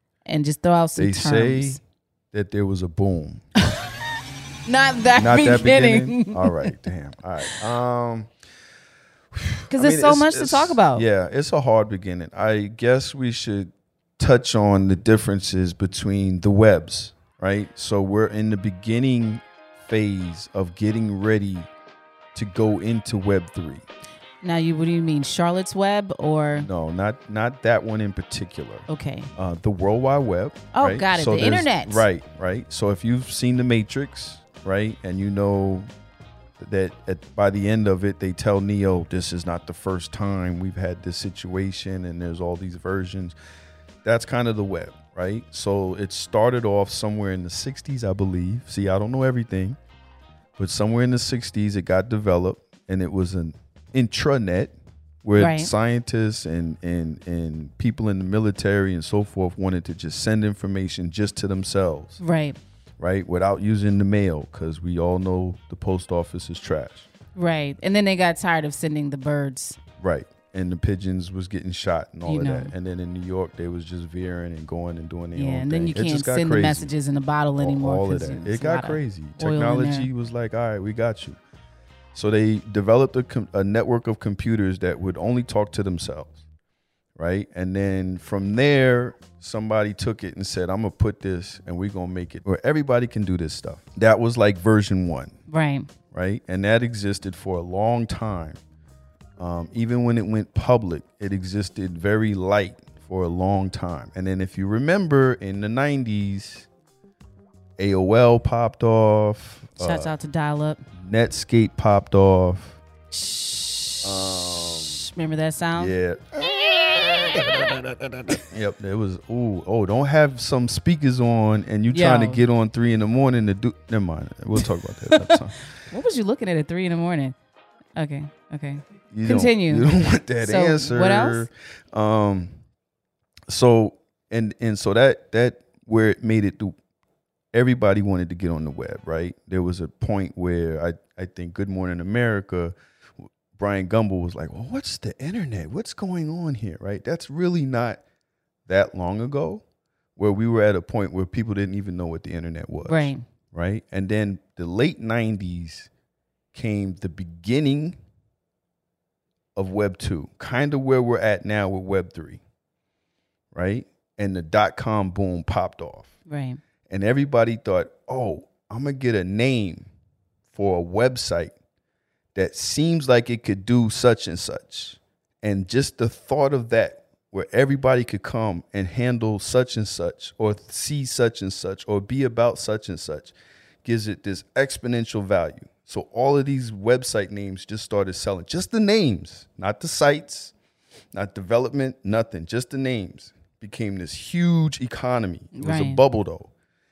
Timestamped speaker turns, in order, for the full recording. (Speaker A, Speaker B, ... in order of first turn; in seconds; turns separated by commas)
Speaker A: 0.3-1.8, Speaker B: 1.0-1.8, Speaker B: 2.3-3.5, Speaker A: 4.7-6.8, Speaker B: 5.2-8.3, Speaker B: 9.3-21.7, Speaker A: 9.7-11.1, Speaker B: 22.3-23.9, Speaker A: 24.4-26.7, Speaker B: 26.6-35.9, Speaker A: 28.9-29.3, Speaker A: 30.7-32.0, Speaker B: 36.6-43.4, Speaker B: 44.0-49.8, Speaker B: 50.6-62.2, Speaker A: 55.4-55.7, Speaker A: 62.2-62.6, Speaker B: 63.0-67.1, Speaker A: 67.3-69.8, Speaker B: 70.0-76.9, Speaker A: 72.3-72.7, Speaker A: 75.3-80.1, Speaker B: 77.6-81.4, Speaker B: 82.1-86.4, Speaker B: 87.2-95.4, Speaker A: 95.5-95.9, Speaker B: 96.1-98.6, Speaker B: 99.4-106.7, Speaker B: 107.8-110.1, Speaker A: 109.8-110.8, Speaker B: 111.0-112.8, Speaker A: 113.1-116.0, Speaker B: 114.0-115.0, Speaker B: 115.8-116.3, Speaker B: 118.5-125.6, Speaker A: 121.9-122.4, Speaker A: 125.1-125.4, Speaker A: 125.9-127.3, Speaker A: 128.0-129.9, Speaker B: 129.1-132.6, Speaker A: 130.4-131.5, Speaker B: 133.5-136.8, Speaker B: 137.5-148.0, Speaker B: 148.7-149.6, Speaker B: 150.2-155.9, Speaker A: 152.8-153.2, Speaker B: 156.5-158.0, Speaker B: 159.6-162.4, Speaker B: 163.5-166.1, Speaker A: 166.3-166.6, Speaker B: 166.9-169.9, Speaker B: 170.5-171.5, Speaker B: 172.3-190.5, Speaker B: 191.1-196.5, Speaker A: 195.5-196.0